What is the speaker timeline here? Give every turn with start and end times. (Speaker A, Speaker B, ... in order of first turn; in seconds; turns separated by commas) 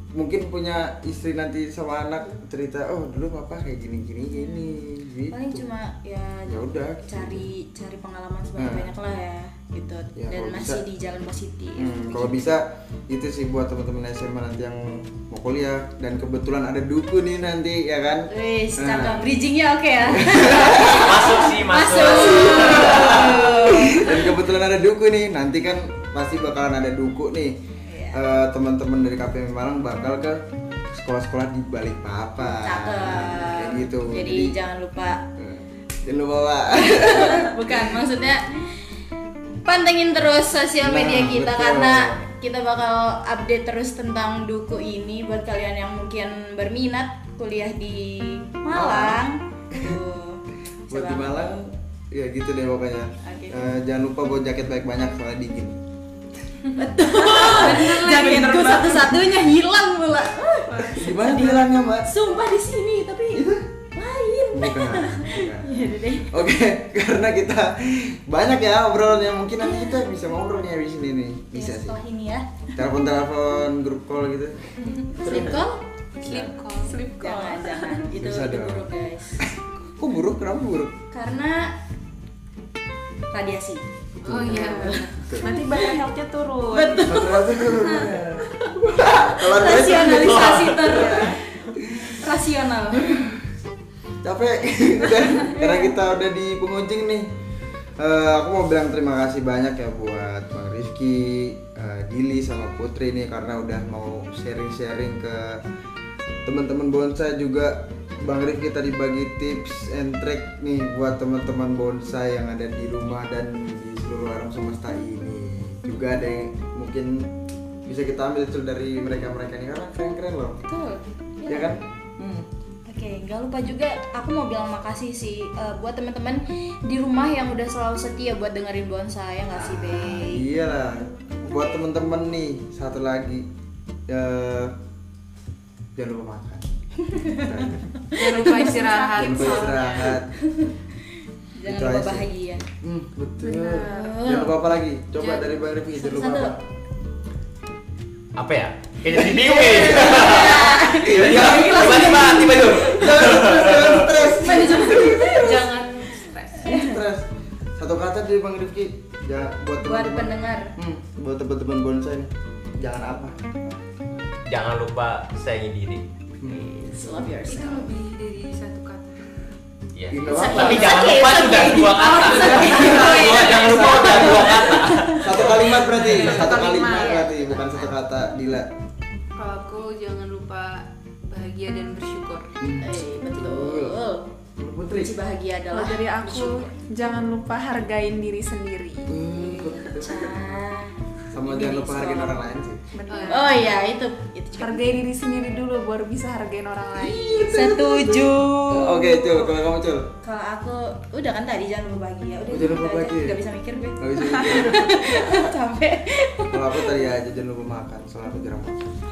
Speaker A: 0.1-5.7, Speaker B: 4.2-12.5, Speaker A: 6.5-7.5, Speaker A: 8.6-8.9, Speaker A: 10.2-10.8, Speaker A: 11.8-19.3, Speaker B: 18.3-24.4, Speaker A: 20.0-21.2, Speaker C: 20.9-23.2, Speaker A: 22.4-27.6, Speaker B: 27.8-28.2, Speaker A: 28.1-34.5, Speaker B: 32.4-35.2, Speaker A: 35.4-38.0, Speaker B: 36.8-38.7, Speaker B: 39.6-51.5, Speaker A: 40.8-42.2, Speaker A: 48.7-50.0, Speaker A: 50.9-55.8, Speaker B: 53.2-53.7, Speaker B: 56.8-66.3, Speaker D: 57.0-59.3, Speaker A: 60.8-62.1, Speaker A: 63.3-63.7, Speaker A: 64.5-72.0, Speaker B: 69.7-70.0, Speaker B: 71.5-72.6, Speaker A: 72.8-75.7, Speaker B: 75.0-75.8, Speaker D: 76.2-77.0, Speaker A: 76.2-76.6, Speaker E: 76.8-78.0, Speaker B: 77.2-79.5, Speaker A: 78.2-81.0, Speaker B: 81.1-81.8, Speaker B: 83.3-86.0, Speaker D: 84.2-85.2, Speaker A: 84.2-85.6, Speaker E: 85.3-87.2, Speaker B: 86.7-88.2, Speaker A: 87.1-92.3, Speaker B: 89.0-93.2, Speaker C: 90.3-90.9, Speaker E: 90.9-91.3, Speaker A: 93.0-93.5, Speaker A: 94.2-97.3, Speaker B: 95.2-95.9, Speaker A: 98.0-105.6, Speaker A: 106.5-117.3, Speaker A: 117.8-120.6, Speaker B: 120.7-121.8, Speaker A: 121.5-122.5, Speaker B: 122.9-130.4, Speaker A: 129.5-133.5, Speaker A: 134.1-134.8, Speaker A: 136.0-136.7, Speaker B: 137.1-138.8, Speaker A: 137.2-138.0, Speaker D: 138.1-140.2, Speaker E: 138.4-139.7, Speaker A: 139.2-140.3, Speaker B: 140.4-140.8, Speaker B: 141.6-142.7, Speaker A: 141.7-142.3, Speaker A: 142.8-146.6, Speaker E: 143.4-144.2, Speaker B: 143.6-144.6, Speaker B: 145.2-146.5, Speaker C: 148.4-154.2, Speaker B: 149.2-153.4, Speaker A: 150.1-155.8, Speaker B: 154.3-155.6, Speaker D: 154.6-156.7, Speaker B: 156.6-157.0, Speaker A: 156.6-163.4, Speaker B: 159.8-160.7, Speaker C: 164.4-166.0, Speaker A: 166.4-167.4, Speaker B: 166.4-167.9, Speaker D: 167.5-169.3, Speaker C: 169.9-175.7, Speaker A: 170.1-171.0, Speaker B: 170.3-173.5, Speaker D: 170.7-176.6, Speaker A: 172.5-178.7, Speaker E: 176.0-177.7, Speaker B: 176.3-177.9, Speaker D: 179.4-182.5, Speaker A: 182.6-184.0, Speaker B: 182.8-184.3, Speaker A: 184.6-185.1, Speaker B: 184.9-186.7, Speaker E: 185.7-190.1, Speaker A: 189.1-190.4, Speaker B: 189.5-192.4, Speaker A: 191.3-192.8, Speaker E: 192.9-193.7, Speaker D: 193.1-193.6, Speaker B: 193.2-195.0, Speaker E: 194.6-197.5, Speaker A: 197.0-200.1, Speaker B: 197.5-199.5, Speaker B: 200.2-206.9, Speaker A: 202.5-203.4, Speaker A: 204.0-205.5, Speaker A: 206.5-208.9